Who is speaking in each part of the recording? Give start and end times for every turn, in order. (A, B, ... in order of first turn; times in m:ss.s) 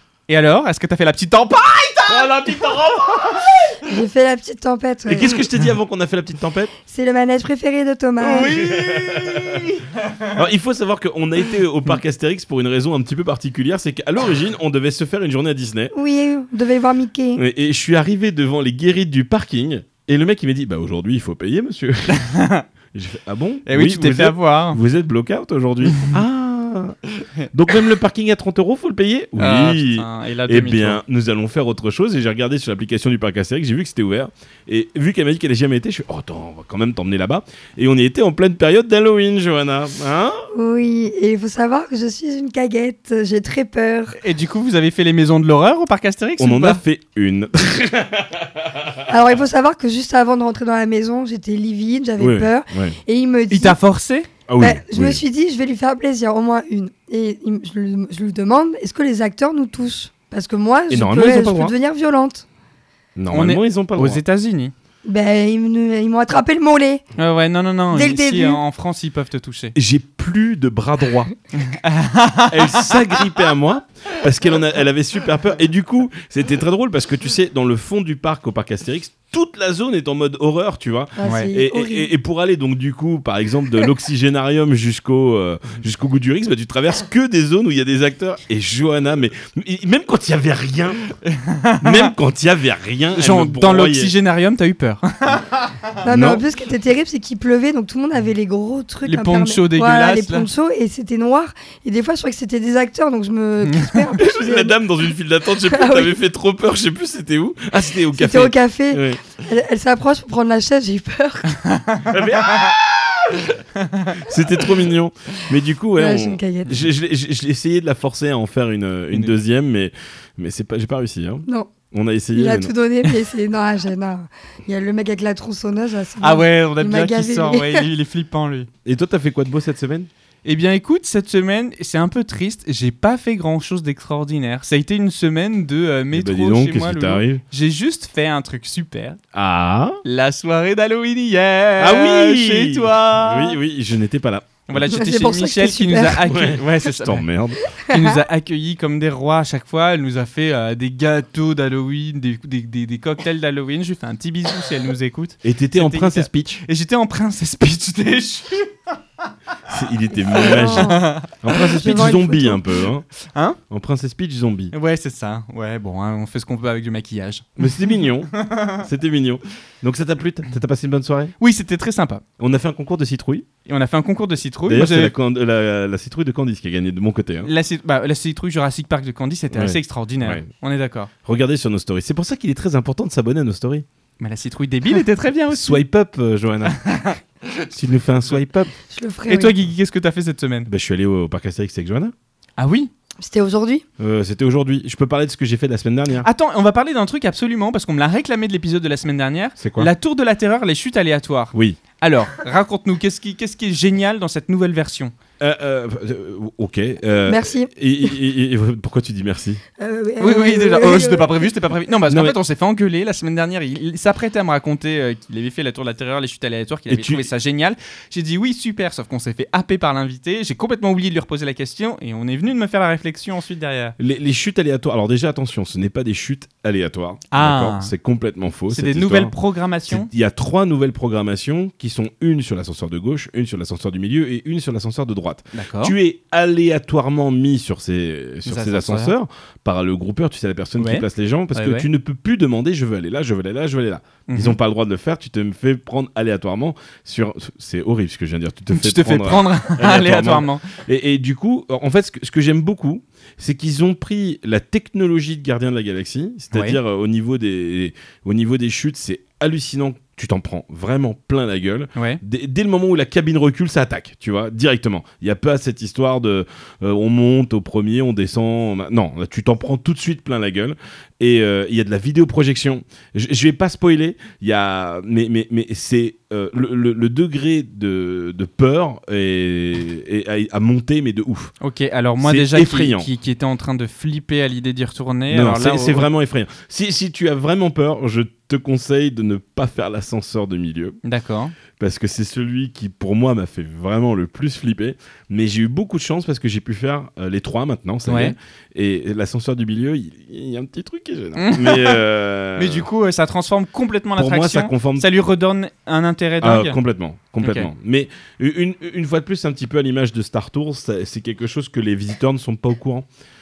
0:00.3-0:03.7 A
0:02.1-0:03.5 B
0:03.8-0:05.4 C
0:05.0-0:06.7 B
0:06.8-0:08.5 C
0:08.2-0:10.3 A
0:08.6-0:09.7 B
0:10.3-0:15.9 B
0:15.9-0:17.4 C
0:17.4-0:22.2 B
0:22.1-0:22.6 A
0:22.9-0:27.0 B
0:23.7-0:24.8 A
0:25.9-0:26.2 A
0:27.5-0:40.5 B
0:29.4-0:31.0 A
0:40.5-0:44.2 C
0:44.2-0:46.8 A
0:46.4-0:49.0 B
0:49.1-0:53.8 C
0:52.2-0:53.0 B
0:53.5-0:54.3 A
0:54.5-0:55.2 B
0:54.6-1:02.4 C
1:00.9-1:01.7 B
1:03.2-1:04.2 B
1:03.3-1:04.7 A
1:05.0-1:07.0 C
1:07.2-1:09.7 A
1:07.9-1:08.6 C
1:09.7-1:11.3 B
1:11.6-1:13.2 A
1:12.5-1:31.1 B
1:21.2-1:22.1 C
1:21.2-1:21.5 A
1:31.3-1:32.1 A
1:31.8-1:34.1 B
1:33.1-1:35.7 A
1:36.0-1:44.8 C
1:36.0-1:36.4 B
1:39.0-1:40.5 A
1:43.7-1:44.1 A
1:44.2-1:49.2 B
1:45.6-1:46.1 C
1:48.1-1:51.6 C
1:51.8-1:52.0 A
1:52.1-2:02.7 B
1:53.9-1:54.2 A
1:56.0-1:56.8 C
2:02.3-2:07.9 C
2:06.2-2:08.7 A
2:08.8-2:10.1 B
2:10.4-2:19.2 A
2:16.1-2:17.4 B
2:19.3-2:20.0 B
2:20.0-2:23.6 A
2:21.8-2:24.6 B
2:24.7-2:27.2 A
2:24.8-2:26.2 C
2:26.2-2:27.6 B
2:27.7-2:28.2 C
2:27.8-2:38.9 A
2:35.4-2:36.6 B
2:39.7-2:43.0 B
2:40.2-2:42.6 C
2:40.4-2:41.8 A
2:43.2-2:43.6 A
2:43.7-2:44.7 B
2:44.7-2:48.8 A
2:47.6-2:51.3 B
2:51.4-2:52.2 A
2:52.4-2:53.5 B
2:53.6-2:55.1 A
2:54.7-2:57.5 B
2:57.4-3:01.1 A
2:59.5-3:00.4 B
3:01.2-3:03.8 B
3:04.2-3:05.8 A
3:05.5-3:06.8 B
3:06.7-3:07.2 A
3:07.7-3:08.7 B
3:08.9-3:09.6 C
3:09.3-3:10.7 A
3:10.7-3:12.1 B
3:12.6-3:12.9 A
3:13.2-3:13.8 C
3:14.0-3:16.3 B
3:16.2-3:25.1 A
3:19.6-3:19.9 B
3:21.5-3:21.8 B
3:25.4-3:29.6 B
3:27.2-3:27.7 C
3:29.8-3:31.5 C
3:30.2-3:44.0 A
3:32.1-3:32.4 B
3:36.9-3:37.3 B
3:44.0-3:49.3 B
3:47.3-3:47.9 A
3:48.7-3:50.1 A
3:49.9-4:41.5 B
3:55.5-3:55.9 A
3:58.4-3:59.1 A
4:00.8-4:01.9 A
4:04.3-4:04.6 A
4:08.7-4:10.6 A
4:16.5-4:16.8 A
4:22.0-4:22.2 A
4:41.6-4:46.1 A
4:42.2-4:43.1 B
4:45.3-4:51.0 B
4:51.0-4:51.6 A
4:51.8-5:02.9 B
4:58.0-4:58.3 A
5:01.4-5:02.0 A
5:02.6-5:06.8 A
5:04.2-5:05.1 B
5:06.4-5:13.0 B
5:07.4-5:07.7 A